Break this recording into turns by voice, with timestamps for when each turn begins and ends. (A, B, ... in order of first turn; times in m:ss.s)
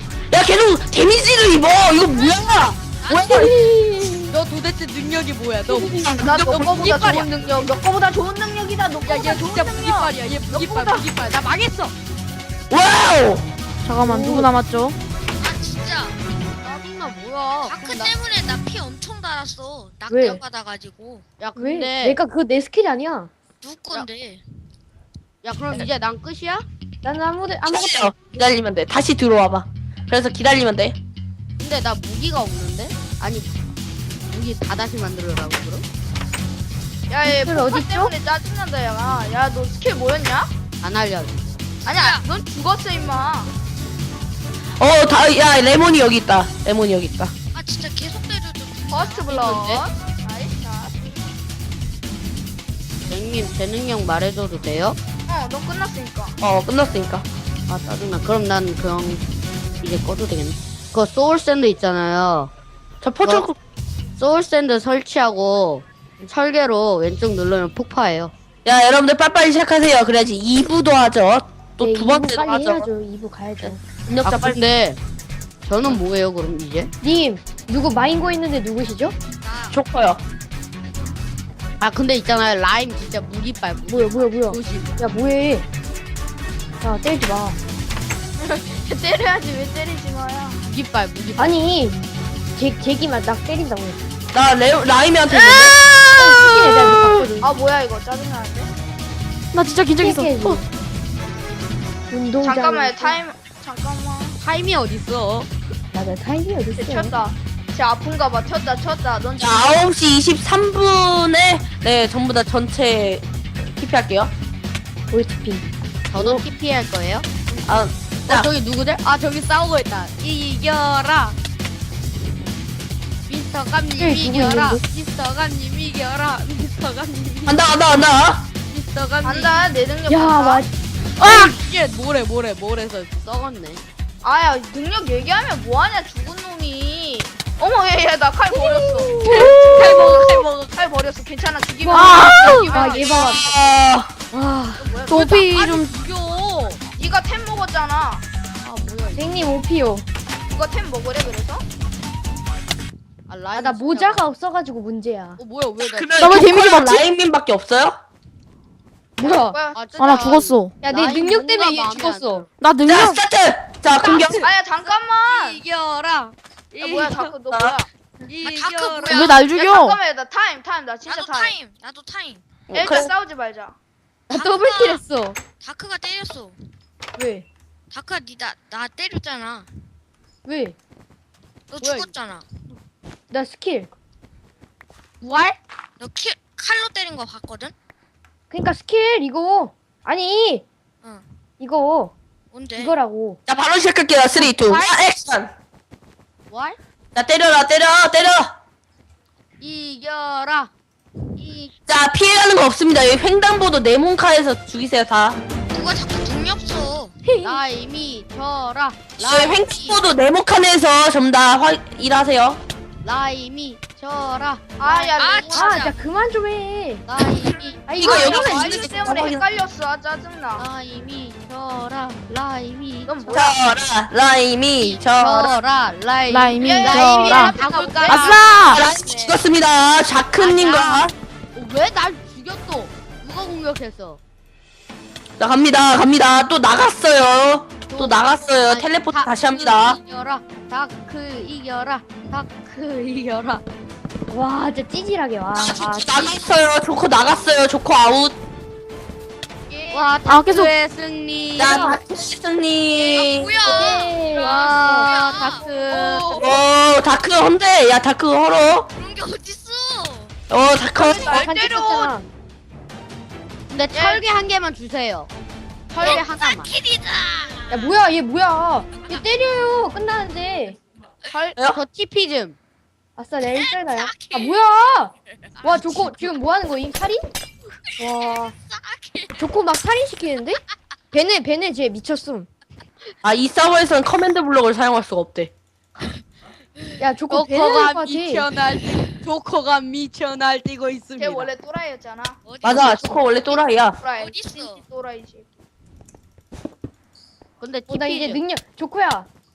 0:00.3-0:04.1 A
0:02.0-0:03.9 B
0:03.7-0:04.1 C
0:04.3-0:07.3 D
0:06.0-0:06.5 A
0:06.1-0:11.1 E
0:09.0-0:11.9 D
0:12.7-0:13.4 A
0:13.8-0:15.0 F
0:14.0-0:14.5 C
0:15.4-0:16.2 B
0:16.6-0:18.1 D
0:17.6-0:21.2 B
0:20.1-0:20.4 C
0:21.4-0:22.2 D
0:21.6-0:23.3 C
0:23.6-0:24.4 B
0:25.4-0:26.7 D
0:27.0-0:28.2 C
0:27.7-0:31.0 A
0:31.6-0:33.7 D
0:34.2-0:35.8 D
0:37.1-0:40.5 E
0:37.2-0:38.1 C
0:40.8-0:41.6 D
0:41.8-0:42.2 B
0:41.9-0:43.5 E
0:44.8-0:47.3 A
0:47.5-0:49.8 B
0:48.9-0:51.1 E
0:53.1-0:55.0 D
0:55.3-0:56.4 E
0:56.4-0:57.2 A
0:57.7-0:59.2 D
0:59.8-1:02.5 D
1:03.0-1:03.6 A
1:04.2-1:08.3 D
1:08.6-1:12.9 A
1:11.8-1:13.8 C
1:13.6-1:14.6 A
1:14.2-1:15.0 D
1:15.6-1:16.9 D
1:17.0-1:19.2 C
1:19.4-1:19.8 B
1:19.7-1:20.2 A
1:21.8-1:25.0 D
1:23.9-1:25.7 C
1:26.8-1:27.6 C
1:28.4-1:30.6 E
1:30.6-1:31.6 D
1:31.4-1:32.0 C
1:32.6-1:34.0 C
1:34.3-1:35.8 A
1:35.3-1:35.7 E
1:36.1-1:37.5 C
1:37.4-1:38.7 E
1:39.5-1:40.6 F
1:40.0-1:40.8 C
1:42.1-1:43.2 C
1:42.4-1:44.4 E
1:44.4-1:45.5 D
1:45.9-1:47.2 C
1:46.8-1:49.8 E
1:49.4-1:54.3 A
1:55.1-1:56.4 C
1:56.1-2:01.4 D
1:57.6-1:58.5 A
2:03.3-2:07.6 D
2:04.0-2:04.8 C
2:07.5-2:08.4 A
2:08.7-2:09.5 D
2:09.2-2:10.6 E
2:10.1-2:10.7 C
2:11.2-2:13.8 D
2:14.2-2:23.8 E
2:19.1-2:20.0 C
2:19.3-2:20.5 A
2:21.8-2:23.4 C
2:21.9-2:24.1 A
2:22.0-2:22.9 F
2:24.3-2:24.9 C
2:24.8-2:25.5 E
2:25.1-2:25.9 F
2:25.5-2:26.8 D
2:27.0-2:28.2 E
2:28.6-2:29.5 D
2:29.1-2:30.1 C
2:30.5-2:31.6 E
2:33.3-2:34.2 D
2:33.6-2:35.4 C
2:35.4-2:36.3 D
2:35.8-2:38.0 A
2:36.2-2:37.1 F
2:39.2-2:39.6 C
2:39.2-2:40.4 E
2:39.7-2:42.5 D
2:39.9-2:40.8 F
2:40.8-2:42.5 C
2:42.6-2:43.2 F
2:42.9-2:44.4 A
2:44.0-2:47.3 D
2:44.4-2:45.6 E
2:46.8-2:47.9 E
2:47.5-2:47.8 A
2:48.2-2:49.2 D
2:48.4-2:49.4 B
2:49.1-2:50.0 F
2:49.1-2:51.6 E
2:51.0-2:52.4 B
2:52.7-2:53.1 A
2:52.7-2:53.8 E
2:54.3-2:55.0 B
2:54.3-2:55.0 D
2:54.3-2:55.4 C
2:55.6-2:56.6 B
2:57.2-2:57.5 C
2:57.9-2:59.7 B
3:00.4-3:00.8 C
3:01.7-3:02.5 B
3:01.8-3:02.1 D
3:03.3-3:03.9 C
3:05.2-3:05.6 D
3:06.0-3:07.7 B
3:08.5-3:10.7 C
3:11.6-3:12.2 C
3:12.5-3:13.0 B
3:12.8-3:13.4 C
3:13.5-3:15.5 A
3:14.4-3:15.0 D
3:16.5-3:16.8 D
3:17.2-3:18.5 A
3:19.6-3:20.7 D
3:21.4-3:21.7 D
3:21.9-3:25.4 A
3:25.7-3:27.2 B
3:27.3-3:27.6 C
3:27.4-3:29.6 D
3:29.2-3:32.6 A
3:29.6-3:30.0 B
3:33.0-3:35.1 D
3:34.8-3:35.8 E
3:35.2-3:36.0 B
3:35.5-3:37.1 C
3:37.1-3:37.9 D
3:37.9-3:38.8 C
3:37.9-3:39.4 A
3:37.9-3:40.7 E
3:40.6-3:43.5 D
3:43.1-3:43.6 E
3:43.3-3:45.6 A
3:44.8-3:48.7 D
3:46.3-3:48.8 F
3:46.6-3:49.4 E
3:48.6-3:51.1 A
3:50.3-3:54.2 D
3:55.4-4:00.0 A
3:57.9-4:03.6 D
4:04.3-4:06.3 C
4:05.5-4:08.4 A
4:09.7-4:10.1 B
4:09.9-4:11.9 D
4:10.2-4:10.7 F
4:11.6-4:13.6 A
4:11.6-4:12.0 C
4:12.9-4:15.7 B
4:13.6-4:15.1 C
4:14.4-4:16.3 D
4:15.5-4:16.6 E
4:16.3-4:18.9 A
4:19.0-4:20.3 B
4:20.5-4:21.6 A
4:21.0-4:22.1 E
4:21.2-4:22.3 C
4:23.7-4:25.3 D
4:23.9-4:24.2 E
4:25.9-4:26.7 D
4:26.0-4:26.3 E
4:26.0-4:28.0 B
4:27.7-4:30.8 C
4:31.3-4:31.7 E
4:31.6-4:31.8 A
4:31.7-4:32.6 D
4:33.2-4:37.3 C
4:33.4-4:34.6 B
4:35.6-4:36.0 B
4:35.8-4:36.3 D
4:38.0-4:38.5 C
4:38.0-4:39.4 B
4:39.4-4:40.6 C
4:41.1-4:42.5 C
4:43.2-4:45.5 A
4:47.0-4:48.5 C
4:47.3-4:51.5 D
4:51.2-4:52.4 E
4:52.5-4:53.4 D
4:52.6-4:54.0 A
4:53.4-4:54.8 B
4:54.0-4:55.5 E
4:57.6-4:58.4 D
4:57.9-4:59.3 C